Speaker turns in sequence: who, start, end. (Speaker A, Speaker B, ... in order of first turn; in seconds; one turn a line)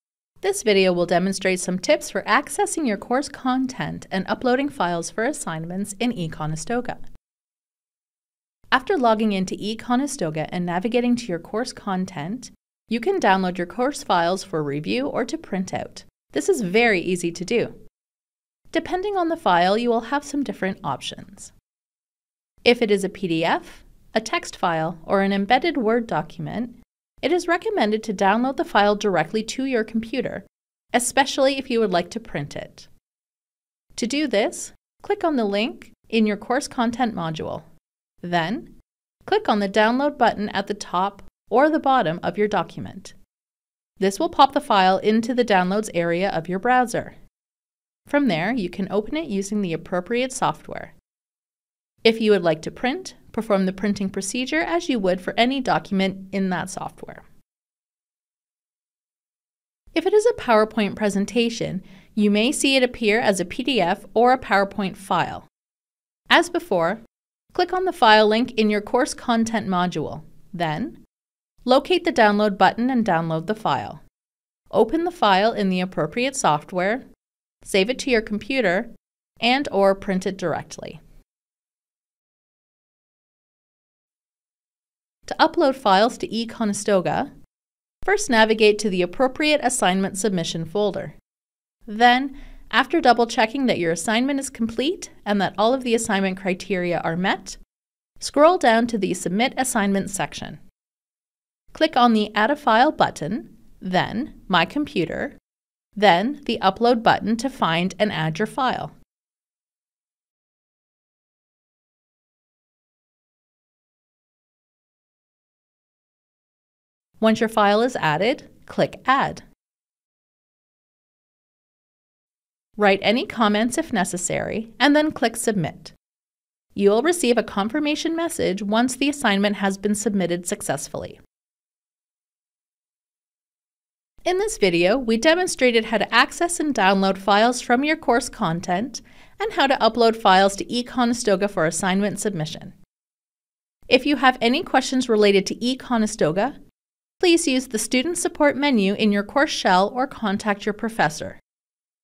Speaker A: 0.4-7.0
Speaker A: 8.7-17.8
Speaker A: 18.7-21.5
Speaker A: 22.6-32.9
Speaker A: 34.0-37.7
Speaker A: 38.2-38.7
Speaker A: 39.2-43.1
Speaker A: 44.0-47.2
Speaker A: 48.1-50.9
Speaker A: 52.0-57.2
Speaker A: 59.9-65.5
Speaker A: 66.3-67.0
Speaker A: 67.5-71.0
Speaker A: 71.6-74.0
Speaker A: 74.7-77.1
Speaker A: 77.6-81.0
Speaker A: 85.3-87.3
Speaker A: 88.0-91.2
Speaker A: 91.9-97.6
Speaker A: 98.2-100.6
Speaker A: 101.7-105.4
Speaker A: 106.0-109.0
Speaker A: 117.2-119.4
Speaker A: 122.8-126.0
Speaker A: 126.7-131.2
Speaker A: 134.2-142.7
Speaker A: 143.9-146.6
Speaker A: 147.2-151.4